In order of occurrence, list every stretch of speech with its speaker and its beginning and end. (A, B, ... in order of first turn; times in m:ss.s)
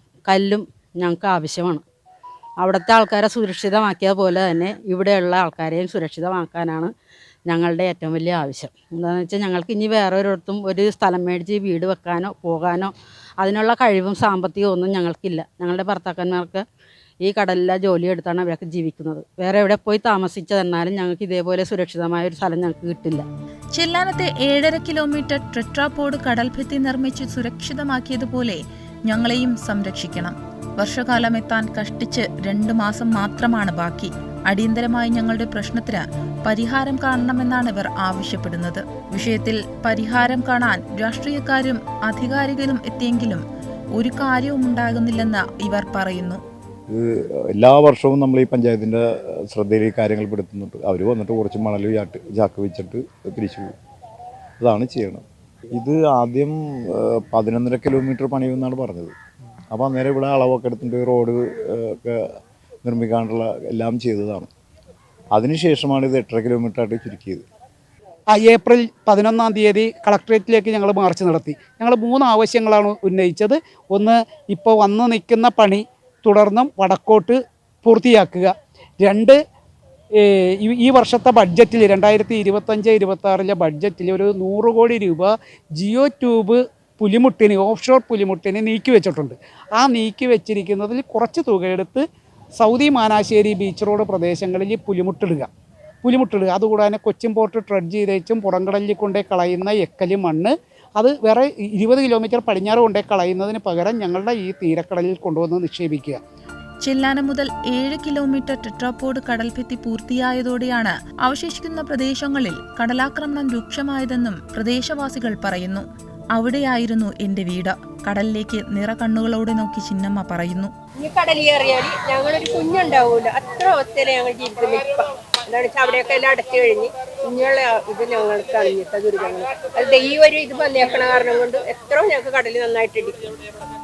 0:00.3-0:01.8 A
0:02.6-0:06.9 A
0:07.5-0:16.6 A
0:17.2-0:23.3 A
0:23.8-0:43.4 B
0:44.0-0:46.4 B
0:46.9-0:53.7 C
0:54.6-0:59.1 C
0:59.7-1:02.2 C
1:02.8-1:04.5 C
1:05.3-1:07.4 C
1:08.3-1:19.4 D
1:20.2-1:32.0 D
1:32.6-1:35.5 D
1:36.0-1:46.2 D
1:46.8-2:00.7 B
2:01.0-2:13.4 E